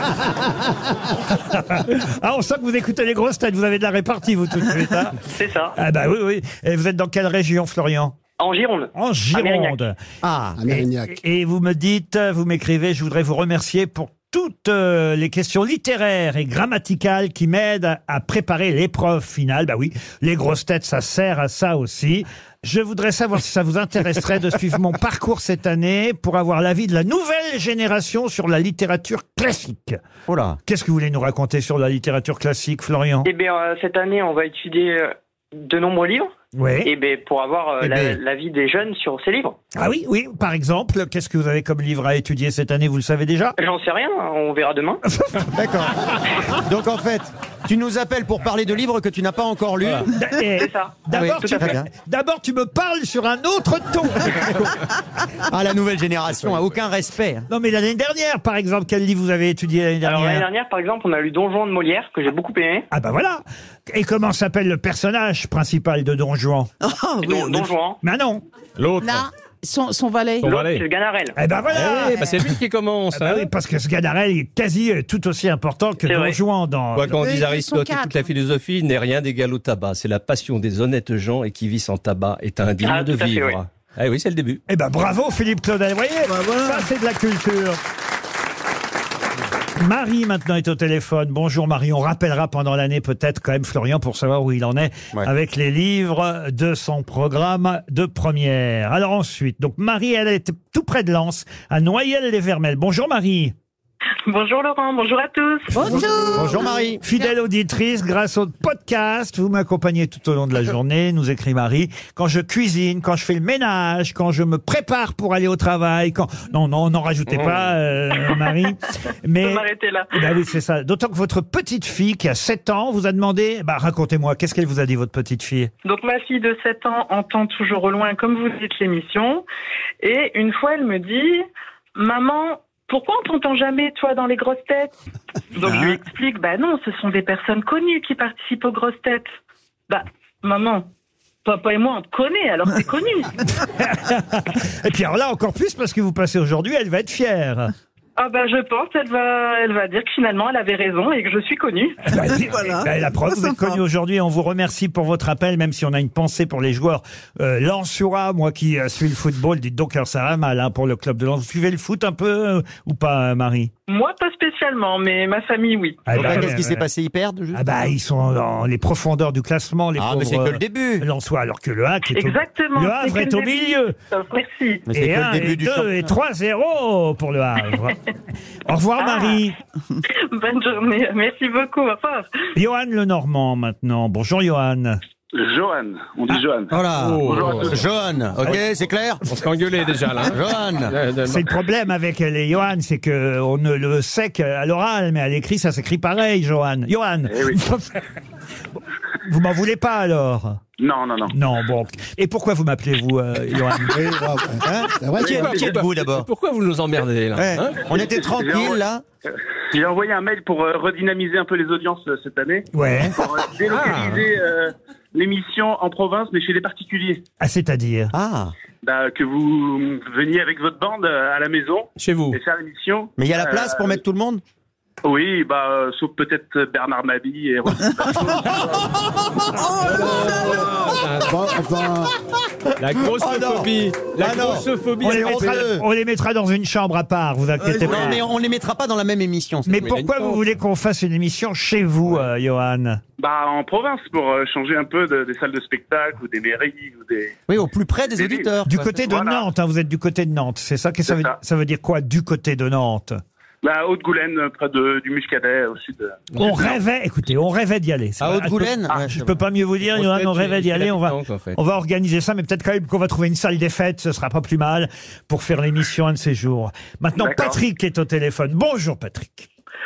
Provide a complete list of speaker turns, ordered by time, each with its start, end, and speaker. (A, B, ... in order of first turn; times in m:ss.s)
0:01.4-0:05.2 A
0:05.3-0:05.8 B
0:05.8-0:08.2 A
0:08.4-0:09.8 B
0:09.0-0:10.0 A
0:10.2-0:10.6 C
0:10.6-0:11.2 D
0:10.7-0:30.0 A
0:30.3-0:30.6 C
0:30.6-0:33.3 A
0:33.2-0:36.3 B
0:36.6-0:36.9 A
0:36.8-0:39.6 B
0:37.8-0:38.2 C
0:39.8-0:43.6 A
0:43.6-0:45.0 B
0:45.1-0:45.5 A
0:45.5-0:50.1 C
0:50.1-0:54.8 A
0:50.6-0:51.8 B
0:51.1-0:51.9 C
0:55.5-0:57.5 C
0:57.5-1:00.5 A
1:00.0-1:02.9 B
1:02.9-1:06.7 A
1:06.8-1:07.7 E
1:07.2-1:08.0 B
1:08.0-1:08.4 A
1:08.8-1:09.2 F
1:09.0-1:10.5 G
1:10.4-1:10.8 F
1:10.4-1:11.4 B
1:11.4-1:12.3 A
1:11.7-1:13.5 F
1:11.9-1:12.4 G
1:13.1-1:17.2 A
1:16.0-1:16.4 B
1:17.0-1:24.6 F
1:17.1-1:18.2 G
1:22.8-1:23.6 B
1:24.7-1:27.8 A
1:26.3-1:26.9 E
1:29.8-1:43.5 A
1:44.3-1:46.3 H
1:45.7-1:46.8 G
1:45.8-2:05.7 A
1:46.0-1:47.0 C
1:59.4-2:00.2 H
2:05.8-2:09.4 H
2:10.0-2:11.4 H
2:12.0-2:15.0 H
2:15.6-2:19.3 H
2:15.6-2:16.0 E
2:19.9-2:20.9 H
2:21.4-2:23.4 H
2:23.8-2:27.7 A
2:28.2-2:32.0 H
2:32.1-2:43.7 A
2:32.1-2:33.8 E
2:43.9-2:46.1 H
2:46.1-2:46.8 A
2:46.1-2:47.7 C
2:47.5-2:53.9 A
2:50.0-2:51.1 C
2:52.1-2:54.9 H
2:54.9-2:56.1 C
2:54.9-2:58.0 A
2:58.6-2:59.6 A
2:59.0-2:59.4 H
3:00.3-3:02.3 H
3:02.6-3:05.0 A
3:05.3-3:07.8 I
3:06.7-3:09.2 C
3:07.0-3:07.8 F
3:09.3-3:11.5 F
3:10.3-3:11.0 C
3:11.3-3:18.0 A
3:17.3-3:17.6 I
3:19.2-3:20.6 A
3:20.8-3:21.3 I
3:21.3-3:24.2 A
3:23.9-3:25.6 D
3:24.6-3:26.3 C
3:25.2-3:27.8 F
3:27.4-3:29.0 C
3:28.0-3:28.8 I
3:29.7-3:37.2 I
3:32.7-3:33.2 A
3:33.7-3:34.3 F
3:37.4-3:38.1 A
3:38.1-3:38.5 C
3:38.8-3:44.0 I
3:42.0-3:42.4 F
3:43.2-3:44.4 C
3:45.0-3:48.7 I
3:47.8-3:48.2 E
3:49.5-3:50.7 E
3:49.9-3:50.5 D
3:49.9-3:51.4 F
3:51.1-3:52.1 D
3:52.8-3:55.7 F
3:53.0-3:55.8 C
3:55.0-3:58.2 A
3:57.6-3:58.2 E
3:57.8-3:59.9 C
3:59.7-4:03.0 A
3:59.8-4:00.5 F
4:03.2-4:07.4 I
4:07.5-4:08.8 C
4:08.1-4:09.5 I
4:08.6-4:13.2 A
4:11.1-4:11.4 I
4:13.6-4:16.2 I
4:16.4-4:29.5 A
4:18.2-4:19.3 C
4:19.9-4:21.6 F